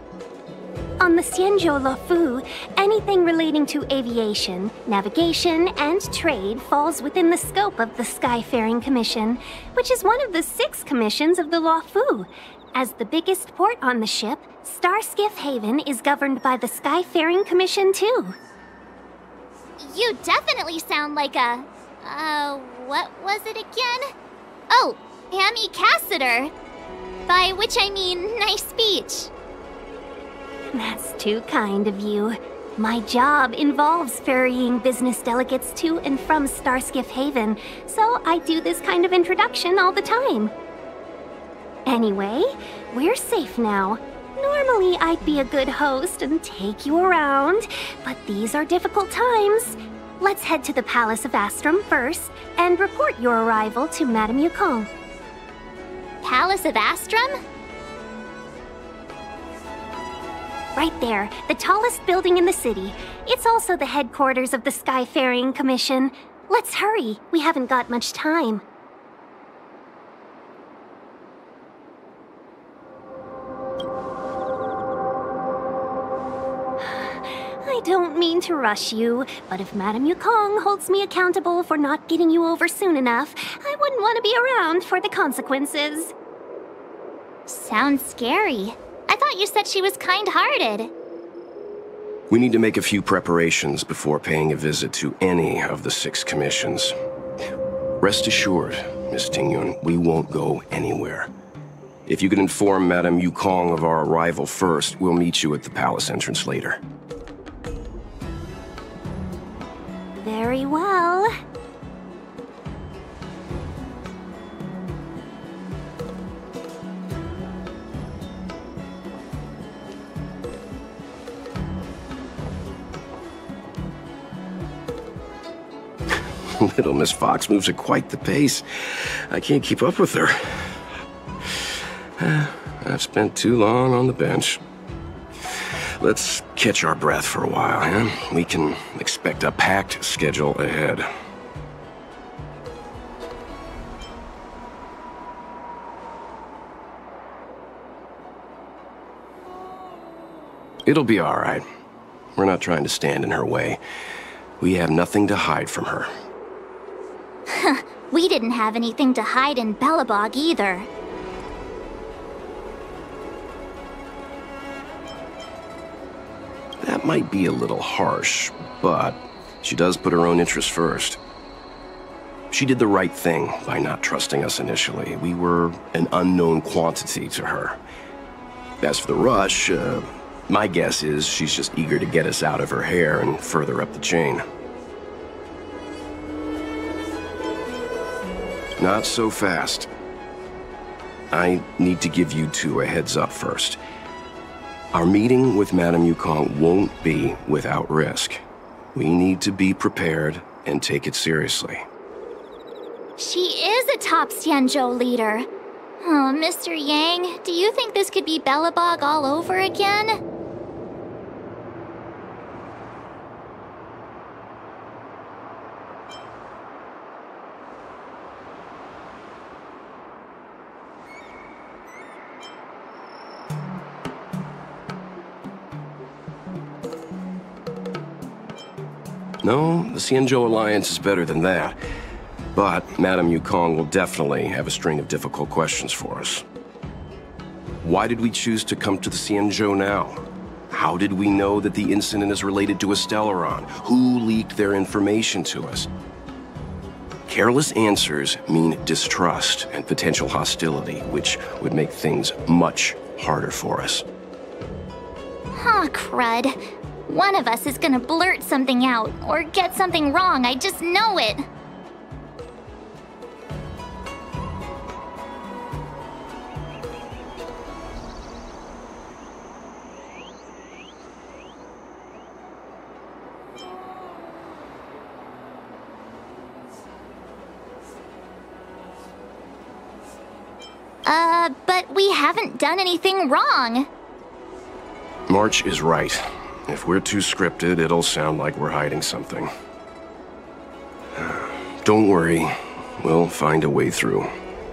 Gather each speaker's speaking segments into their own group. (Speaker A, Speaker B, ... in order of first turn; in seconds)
Speaker A: 1.0-18.4, 30.7-40.5, 41.9-54.9, 60.8-68.6, 76.8-86.1, 110.2-111.3
Speaker B: 19.8-24.1, 24.7-26.5, 27.3-29.3, 56.2-57.4, 87.5-90.9, 157.5-160.9, 203.2-205.5, 206.0-210.2, 255.5-261.4, 281.1-283.9
Speaker C: 92.3-97.0, 98.0-101.3, 102.1-106.8, 126.1-130.9, 131.4-134.6, 135.5-141.1, 150.8-151.7, 152.4-153.8, 154.6-156.1, 166.8-171.2, 172.5-177.8, 178.8-184.4, 188.8-189.9, 191.3-193.8, 194.9-198.4, 198.9-201.8, 229.4-231.8, 232.5-236.4, 237.8-245.9, 247.3-254.1, 285.3-289.5, 291.1-294.3